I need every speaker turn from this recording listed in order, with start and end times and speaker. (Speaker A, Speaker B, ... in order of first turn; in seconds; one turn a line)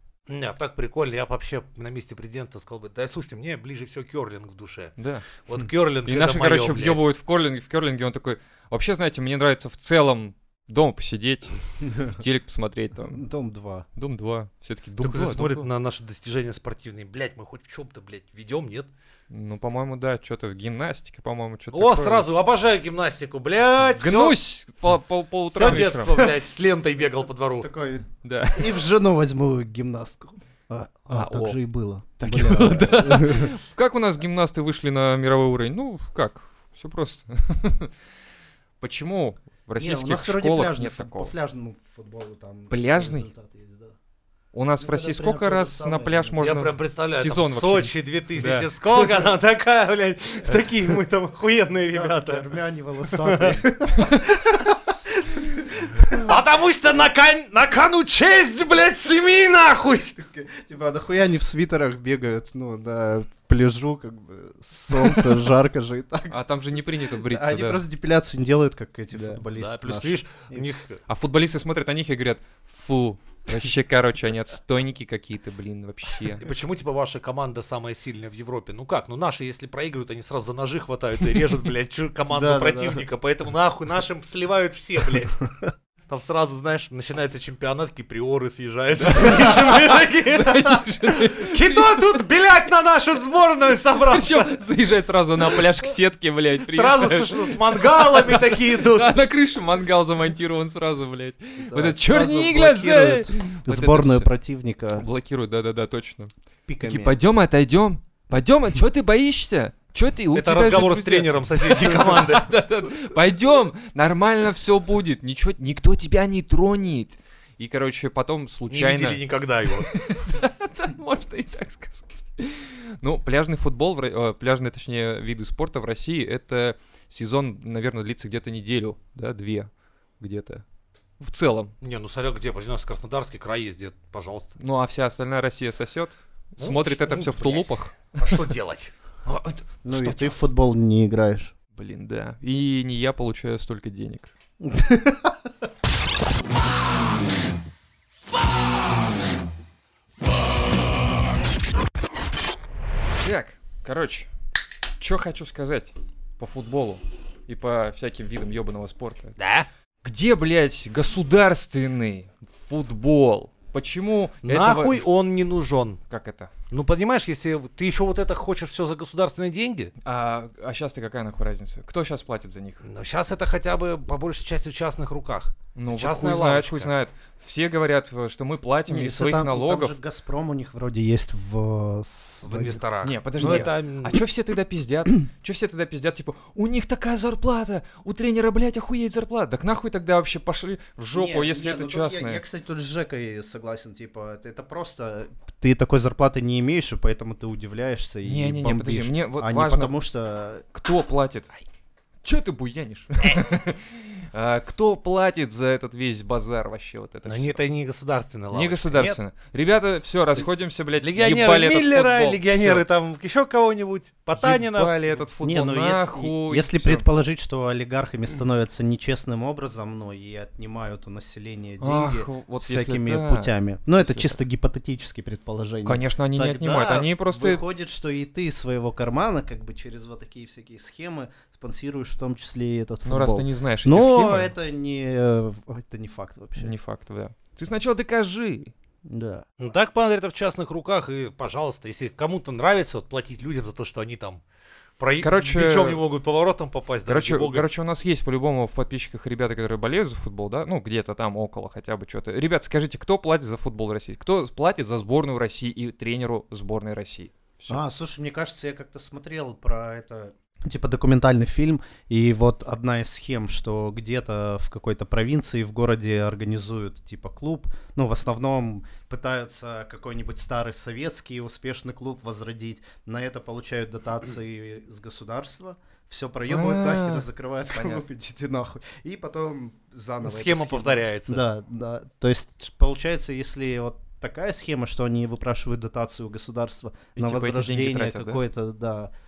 Speaker A: 0.3-7.0
Speaker B: 5.0-5.3
Speaker B: 6.0-13.2
Speaker C: 11.8-12.1
Speaker C: 13.1-13.9
Speaker B: 13.9-15.7
Speaker A: 15.0-18.9
Speaker B: 19.3-22.3
Speaker A: 21.7-24.4
Speaker B: 24.0-26.2
Speaker A: 25.5-27.7
Speaker C: 27.6-33.5
Speaker B: 28.2-28.8
Speaker B: 31.1-31.6
Speaker B: 32.2-37.9
Speaker B: 38.8-41.3
Speaker C: 39.8-43.9
Speaker B: 42.7-43.2
Speaker B: 44.5-48.7
Speaker C: 44.8-46.6
Speaker A: 46.4-52.5
Speaker C: 51.9-56.4
Speaker A: 53.1-53.5
Speaker A: 56.1-60.1
Speaker C: 60.1-66.4
Speaker B: 66.3-67.8
Speaker C: 67.1-70.7
Speaker B: 69.1-69.4
Speaker A: 69.5-71.0
Speaker B: 71.1-76.4
Speaker A: 76.4-85.4
Speaker C: 82.3-83.0
Speaker A: 86.1-94.5
Speaker B: 89.0-92.2
Speaker B: 94.0-104.3
Speaker A: 96.7-99.1
Speaker C: 101.7-105.0
Speaker B: 104.9-106.3
Speaker C: 106.7-107.2
Speaker B: 106.8-130.6
Speaker A: 110.3-112.5
Speaker A: 118.7-119.9
Speaker B: 131.2-131.7
Speaker A: 131.8-134.5
Speaker B: 134.6-138.4
Speaker A: 136.6-138.9
Speaker B: 139.2-140.4
Speaker C: 139.8-141.5
Speaker B: 141.7-144.3
Speaker C: 144.6-145.4
Speaker B: 153.2-154.3
Speaker B: 155.0-159.3
Speaker A: 159.4-159.7
Speaker B: 160.0-165.0
Speaker A: 164.4-166.0
Speaker B: 166.1-166.5
Speaker A: 166.7-169.9
Speaker B: 170.0-172.8
Speaker A: 172.8-176.9
Speaker B: 175.7-179.9
Speaker C: 178.9-182.8
Speaker A: 182.4-184.2
Speaker B: 183.0-192.4
Speaker C: 183.4-183.7
Speaker C: 191.1-200.7
Speaker B: 198.2-199.9
Speaker B: 200.7-201.5
Speaker B: 202.2-207.6
Speaker A: 207.2-209.2
Speaker B: 208.5-212.8
Speaker A: 211.0-215.1
Speaker B: 214.4-217.0
Speaker C: 215.4-236.7
Speaker B: 221.8-224.3
Speaker B: 225.8-227.6
Speaker B: 233.1-234.5
Speaker B: 236.6-238.7
Speaker C: 239.1-239.4
Speaker A: 239.6-244.4
Speaker A: 245.0-247.7
Speaker B: 245.2-246.0
Speaker B: 247.1-257.8
Speaker C: 257.7-289.1
Speaker B: 276.5-278.0
Speaker A: 280.2-281.4
Speaker B: 287.1-288.4